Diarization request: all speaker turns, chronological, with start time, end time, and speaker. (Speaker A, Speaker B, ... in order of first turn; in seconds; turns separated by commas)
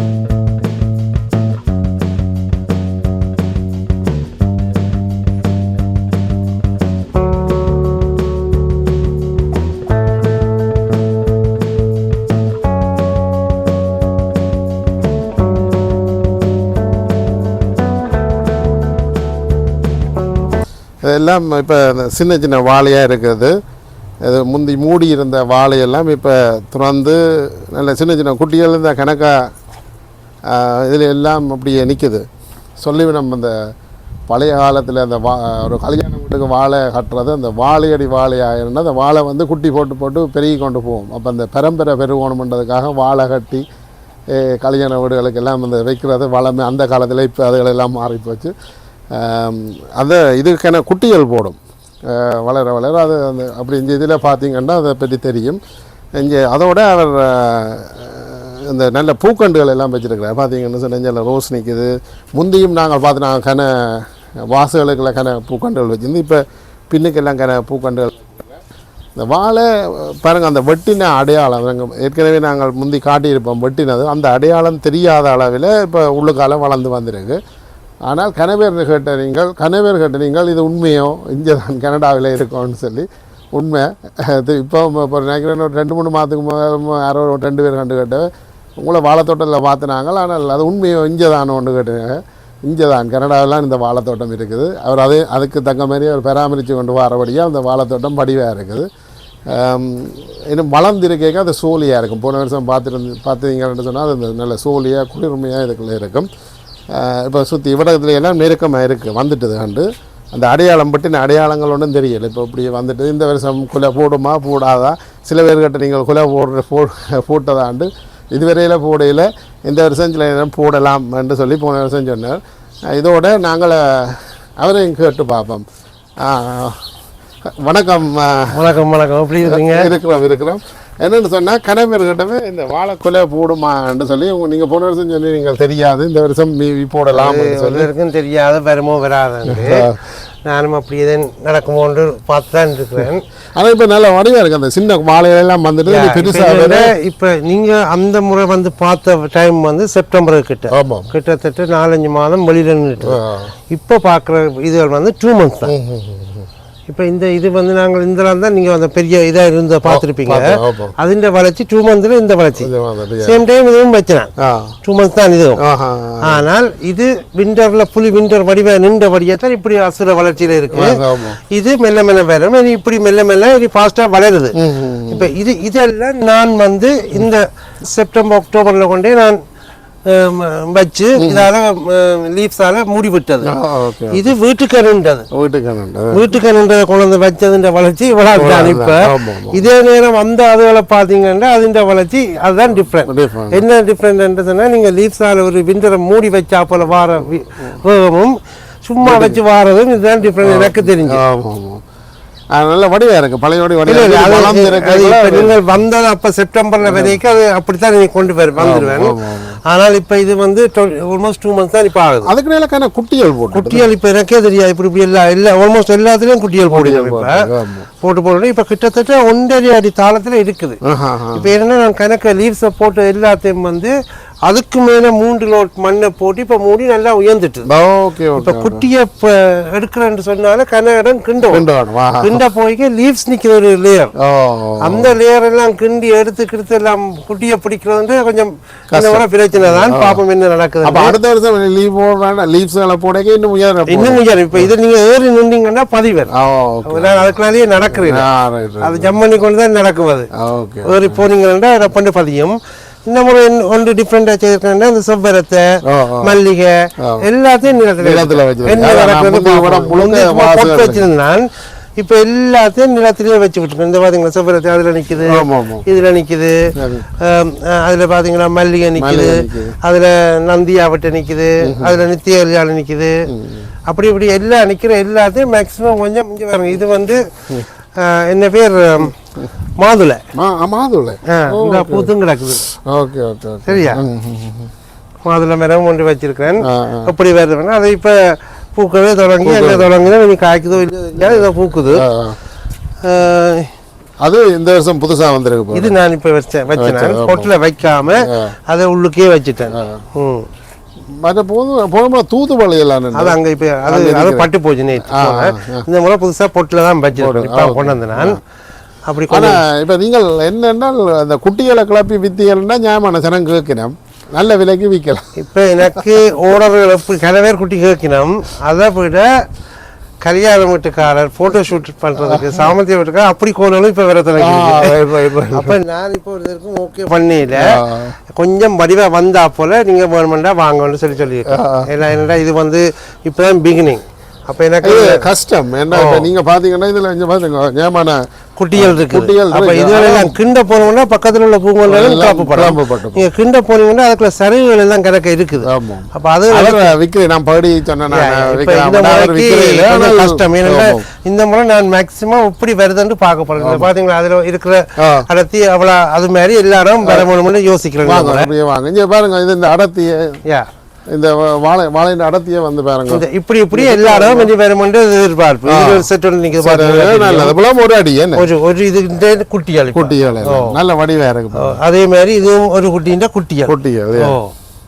Speaker A: 21.0-23.6, Speaker A: 24.2-29.5, Speaker A: 30.5-32.2, Speaker A: 32.8-33.7, Speaker A: 34.3-43.6, Speaker A: 44.3-48.5, Speaker A: 49.1-55.6, Speaker A: 56.1-68.6, Speaker A: 69.2-77.4, Speaker A: 78.0-98.9, Speaker A: 99.5-106.3, Speaker A: 106.9-125.6, Speaker A: 126.2-126.9, Speaker A: 127.6-128.7, Speaker B: 128.5-129.9, Speaker A: 129.4-137.9, Speaker B: 137.1-139.9, Speaker A: 139.4-140.0, Speaker B: 140.4-143.2, Speaker A: 143.5-146.9, Speaker B: 145.9-153.2, Speaker A: 150.7-151.1, Speaker A: 153.0-153.5, Speaker B: 153.7-155.7, Speaker A: 155.6-156.5, Speaker B: 156.9-162.7, Speaker A: 159.8-160.9, Speaker A: 162.6-163.4, Speaker B: 163.2-164.3, Speaker A: 164.4-164.8, Speaker B: 164.8-165.6, Speaker A: 165.6-166.4, Speaker B: 166.2-179.4, Speaker A: 170.7-171.4, Speaker A: 174.6-175.3, Speaker B: 180.1-183.5, Speaker A: 181.2-181.5, Speaker A: 183.4-184.3, Speaker B: 184.1-185.3, Speaker A: 185.3-186.4, Speaker B: 186.1-201.2, Speaker A: 188.3-189.7, Speaker A: 193.0-193.6, Speaker A: 199.0-199.4, Speaker A: 200.4-201.8, Speaker A: 202.5-205.7, Speaker B: 203.8-212.3, Speaker A: 206.8-207.2, Speaker A: 208.6-209.6, Speaker A: 212.2-213.9, Speaker B: 213.5-220.8, Speaker A: 216.7-217.9, Speaker A: 220.8-221.5, Speaker B: 221.3-223.9, Speaker B: 224.5-227.7, Speaker A: 227.7-228.9, Speaker B: 228.4-234.1, Speaker A: 231.5-232.4, Speaker A: 234.2-235.2, Speaker B: 234.8-241.2, Speaker A: 238.9-240.2, Speaker A: 240.8-244.7, Speaker B: 243.9-246.3, Speaker A: 246.3-249.2, Speaker B: 246.9-248.2, Speaker B: 248.8-250.3, Speaker A: 250.3-251.2, Speaker B: 250.8-261.5, Speaker A: 255.8-256.4, Speaker A: 257.0-257.3, Speaker A: 258.0-261.1, Speaker B: 262.0-273.1, Speaker A: 265.2-265.8, Speaker A: 266.7-267.1, Speaker A: 268.9-269.8, Speaker A: 271.6-272.0, Speaker A: 273.3-273.7, Speaker B: 273.9-277.2, Speaker B: 277.9-279.2, Speaker B: 279.8-280.2, Speaker A: 280.3-282.1, Speaker B: 281.3-282.6, Speaker A: 282.6-284.7, Speaker B: 283.6-284.0, Speaker B: 285.2-288.2, Speaker A: 286.6-287.1, Speaker B: 288.7-292.1, Speaker A: 289.4-289.9, Speaker A: 291.2-292.4, Speaker B: 293.0-293.7, Speaker A: 294.2-295.9, Speaker B: 295.7-300.5, Speaker A: 296.8-297.5, Speaker A: 298.1-298.6, Speaker A: 299.7-300.0, Speaker A: 301.0-305.9, Speaker B: 303.1-308.4, Speaker A: 307.1-308.4, Speaker B: 309.1-309.6, Speaker A: 309.3-315.3, Speaker B: 315.3-319.3, Speaker A: 315.8-316.3, Speaker B: 320.2-327.8, Speaker A: 322.2-322.7, Speaker A: 324.4-325.8, Speaker A: 327.5-328.2, Speaker B: 328.4-335.2, Speaker A: 331.5-331.9, Speaker A: 334.8-338.2, Speaker B: 335.9-336.3, Speaker B: 338.6-346.9, Speaker A: 338.7-340.4, Speaker A: 341.9-343.2, Speaker A: 345.6-351.0, Speaker B: 348.1-358.5, Speaker A: 353.6-353.9, Speaker A: 355.0-355.3, Speaker A: 357.0-357.3, Speaker A: 358.0-360.4, Speaker A: 361.1-364.5, Speaker B: 363.1-367.5, Speaker A: 365.6-368.5, Speaker B: 368.4-370.8, Speaker A: 369.9-371.8, Speaker B: 371.5-374.5, Speaker A: 373.6-374.4